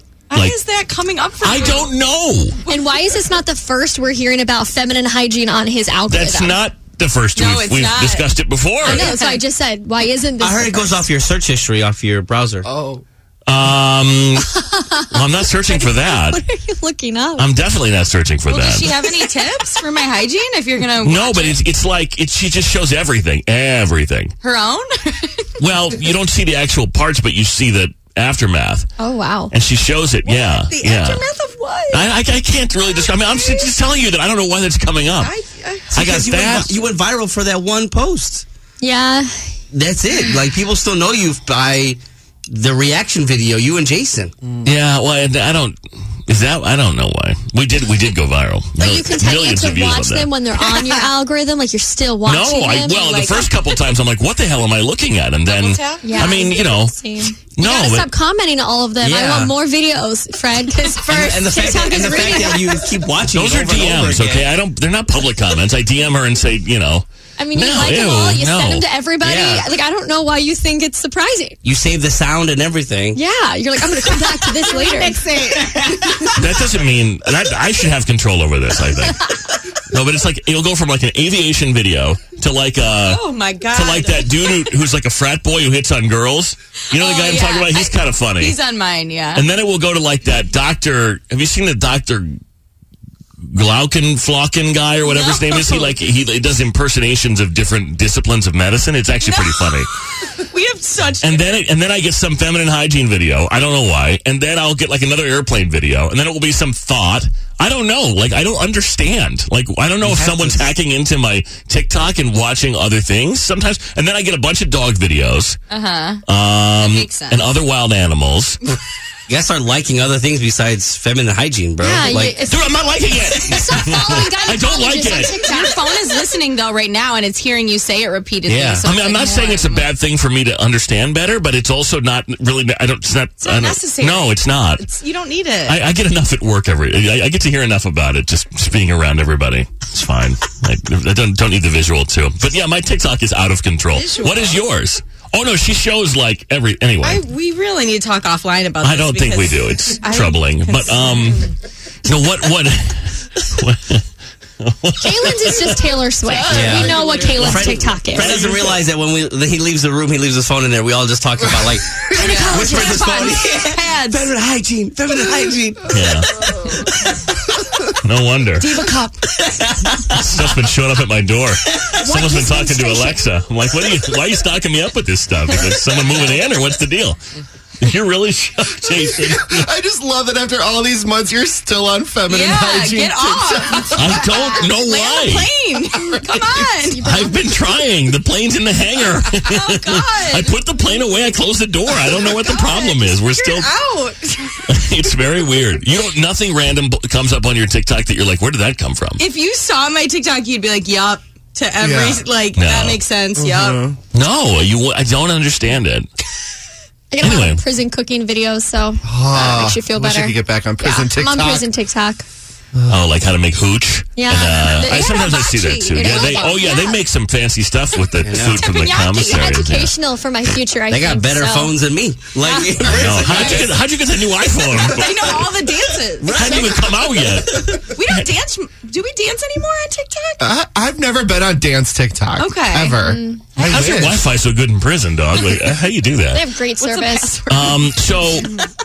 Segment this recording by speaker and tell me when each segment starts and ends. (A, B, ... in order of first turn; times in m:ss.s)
0:00.3-0:01.9 A
0:01.4-0:02.6 B
0:02.6-0:02.9 A
0:02.6-0:06.6 C
0:06.1-0:09.1 B
0:07.4-0:08.3 A
0:08.8-0:11.1 C
0:08.8-0:09.4 A
0:10.4-0:12.7 D
0:12.6-0:13.0 E
0:13.5-0:14.5 B
0:14.6-0:17.5 C
0:15.1-0:16.4 B
0:17.4-0:19.0 B
0:18.5-0:21.6 A
0:21.0-0:24.3 B
0:24.4-0:25.5 A
0:25.6-0:28.9 B
0:29.0-0:29.5 C
0:29.5-0:31.2 B
0:30.2-0:32.0 A
0:31.9-0:35.3 B
0:33.1-0:33.7 A
0:35.2-0:35.8 A
0:35.9-0:38.4 D
0:35.9-0:36.7 B
0:38.8-0:39.5 C
0:39.7-0:44.3 D
0:44.6-0:45.8 B
0:46.3-0:50.3 B
0:48.8-0:53.5 C
0:52.2-0:58.1 B
0:55.5-0:56.3 A
0:56.0-1:02.9 C
0:59.0-0:59.5 D
1:01.0-1:04.5 D
1:02.1-1:02.4 A
1:03.3-1:08.8 B
1:07.4-1:11.6 C
1:09.2-1:09.7 D
1:11.6-1:13.2 D
1:13.1-1:15.3 C
1:14.8-1:15.5 A
1:16.3-1:19.3 B
1:19.9-1:23.2 B
1:23.1-1:24.7 A
1:23.7-1:28.6 B
1:26.9-1:29.4 A
1:29.3-1:32.4 B
1:33.5-1:39.9 B
1:35.0-1:35.9 A
1:39.2-1:39.7 A
1:40.2-1:41.6 A
1:41.2-1:55.6 B
1:50.0-1:50.7 D
1:55.7-1:56.2 A
1:56.3-1:58.6 B
1:56.8-1:57.4 A
1:59.3-2:02.4 D
2:01.8-2:05.9 C
2:02.4-2:05.4 B
2:05.4-2:09.9 A
2:08.5-2:08.8 D
2:08.8-2:14.8 B
2:13.4-2:15.8 A
2:15.7-2:27.2 B
2:23.9-2:24.6 A
2:27.0-2:31.4 A
2:28.8-2:31.5 B
2:32.0-2:34.0 B
2:34.6-2:36.0 B
2:35.0-2:38.4 C
2:36.2-2:37.7 A
2:36.5-2:46.1 D
2:38.1-2:38.8 B
2:42.1-2:43.2 C
2:42.2-2:44.3 A
2:45.9-2:46.3 B
2:48.0-2:48.7 B
2:48.6-2:49.2 A
2:49.5-2:50.2 D
2:50.1-2:57.2 B
2:52.1-2:53.2 C
2:57.8-2:59.6 B
2:58.9-3:04.2 E
3:02.3-3:07.0 A
3:03.9-3:05.5 B
3:06.9-3:07.7 C
3:07.0-3:13.7 B
3:09.4-3:10.5 A
3:12.4-3:14.6 A
3:14.7-3:19.2 B
3:19.2-3:23.8 A
3:21.8-3:22.2 E
3:22.6-3:23.0 B
3:23.4-3:24.0 E
3:24.1-3:26.1 B
3:27.1-3:32.2 C
3:27.2-3:27.6 B
3:29.0-3:31.7 E
3:32.9-3:39.9 B
3:34.2-3:34.9 C
3:34.7-3:36.7 A
3:36.0-3:37.0 C
3:38.2-3:38.6 D
3:38.5-3:39.4 A
3:39.2-3:41.8 C
3:40.9-3:43.7 D
3:42.4-3:43.7 A
3:42.8-3:45.5 B
3:44.7-3:46.8 A
3:46.2-3:47.8 D
3:46.3-3:48.2 B
3:47.9-3:50.4 A
3:50.4-3:54.2 E
3:52.4-3:53.0 A
3:53.0-3:53.5 C
3:53.6-3:53.8 A
3:53.6-3:56.5 B
3:56.3-3:57.4 C
3:56.8-3:58.0 A
3:57.5-3:58.5 B